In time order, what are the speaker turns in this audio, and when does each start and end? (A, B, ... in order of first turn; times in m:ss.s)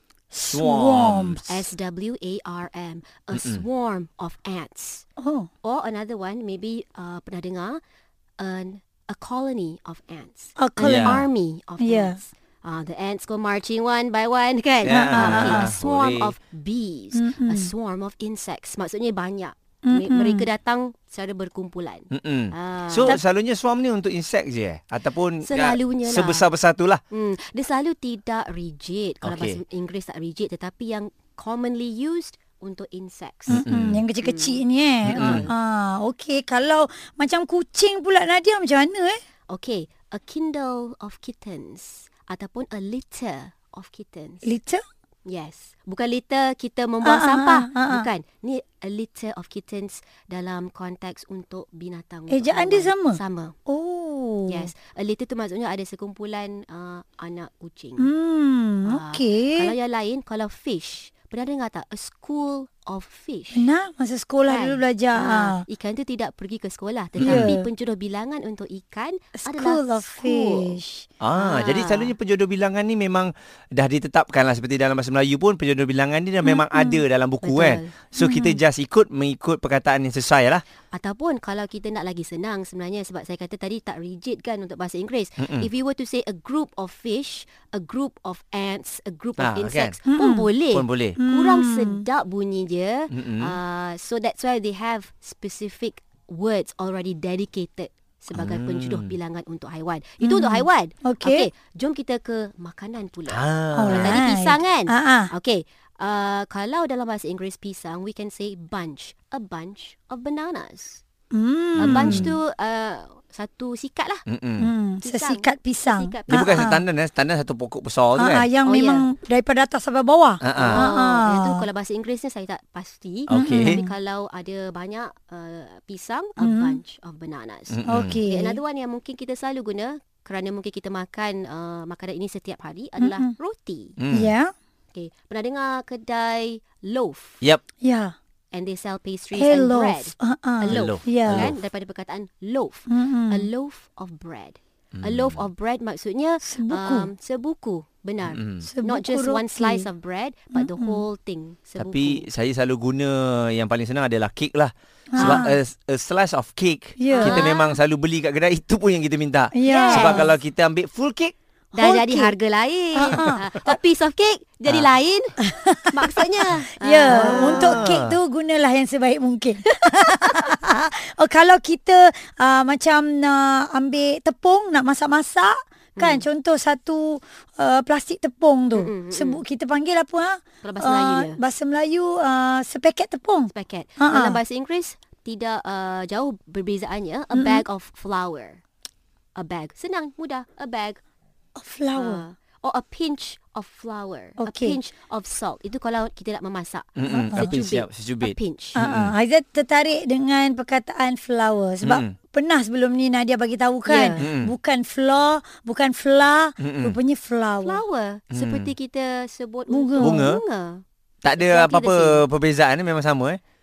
0:00.3-0:01.4 A
0:00.5-0:01.5 B
0:01.5-0:05.0 C
0:03.3-0:03.6 B
0:05.2-0:05.5 A
0:05.6-0:07.8 C
0:08.4-0:23.2 C
0:10.6-0:11.2 A
0:10.8-0:11.2 B
0:11.8-0:12.2 A
0:14.8-0:16.3 B
0:14.9-0:15.7 A
0:17.1-0:17.7 A
0:19.8-0:20.4 A
0:22.1-0:27.0 B
0:25.4-0:26.4 C
0:27.1-0:33.6 C
0:29.2-0:29.6 B
0:33.5-0:39.2 A
0:33.5-0:34.0 B
0:34.2-0:35.5 C
0:35.0-0:35.5 B
0:39.5-0:44.5 C
0:44.4-0:44.8 A
0:45.2-0:53.6 C
0:47.0-0:48.1 A
0:52.3-0:54.7 A
0:54.5-0:58.1 C
0:58.0-0:59.7 A
0:58.8-1:03.7 C
1:03.5-1:05.6 A
1:04.4-1:10.8 C
1:07.2-1:07.5 B
1:07.2-1:07.7 A
1:09.4-1:11.1 A
1:11.2-1:20.6 B
1:11.4-1:12.1 C
1:16.4-1:17.0 A
1:17.4-1:17.9 C
1:18.2-1:18.6 A
1:20.9-1:51.0 C
1:25.4-1:25.7 B
1:29.4-1:30.0 B
1:30.1-1:30.5 A
1:30.7-1:31.2 B
1:31.2-1:32.0 A
1:33.1-1:33.6 B
1:38.3-1:39.1 B
1:40.2-1:41.5 A
1:43.3-1:44.2 B
1:43.7-1:45.3 A
1:51.3-1:52.3 A
1:51.8-1:54.2 C
1:51.8-1:52.3 B
1:54.3-1:54.7 B
1:54.6-1:56.8 A
1:55.0-1:56.7 C
1:56.3-1:58.5 B
1:58.2-2:01.6 A
1:58.6-1:59.1 C
2:00.4-2:00.8 B
2:00.6-2:13.9 C
2:03.3-2:03.8 B
2:03.3-2:03.9 A
2:06.4-2:06.8 A
2:07.7-2:08.2 B
2:07.8-2:08.6 A
2:13.0-2:13.3 A
2:14.0-2:14.3 B
2:14.1-2:14.5 A
2:14.9-2:17.4 C
2:17.8-2:18.1 A
2:18.5-2:32.3 C
2:19.3-2:21.5 A
2:20.7-2:21.6 B
2:22.9-2:23.5 A
2:25.0-2:25.4 B
2:26.4-2:27.1 A
2:28.2-2:28.7 B
2:28.6-2:29.9 A
2:30.5-2:31.0 A
2:31.8-2:41.3 B
2:35.1-2:35.5 A
2:37.0-2:37.4 A
2:37.1-2:37.7 C
2:39.5-2:40.3 A
2:39.6-2:40.3 C
2:41.7-2:47.8 C
2:41.8-2:42.4 A
2:42.9-2:43.4 A
2:45.4-2:46.1 A
2:46.8-3:04.4 A
2:47.0-2:48.2 B
2:56.0-2:56.2 C
2:58.7-2:59.4 C
3:00.6-3:01.4 C
3:03.5-3:08.6 C
3:07.3-3:07.6 A
3:09.4-3:11.0 C
3:11.6-3:12.2 A
3:12.0-3:18.8 C
3:14.4-3:14.8 A
3:17.0-3:19.1 B
3:17.1-3:17.6 A
3:18.8-3:27.8 A
3:21.8-3:22.2 B
3:23.8-3:24.3 C
3:24.2-3:24.5 B
3:26.6-3:27.0 B
3:27.6-3:30.8 C
3:28.3-3:28.7 B
3:29.7-3:30.2 A
3:30.0-3:30.4 B
3:31.2-3:33.4 B
3:31.4-3:32.2 C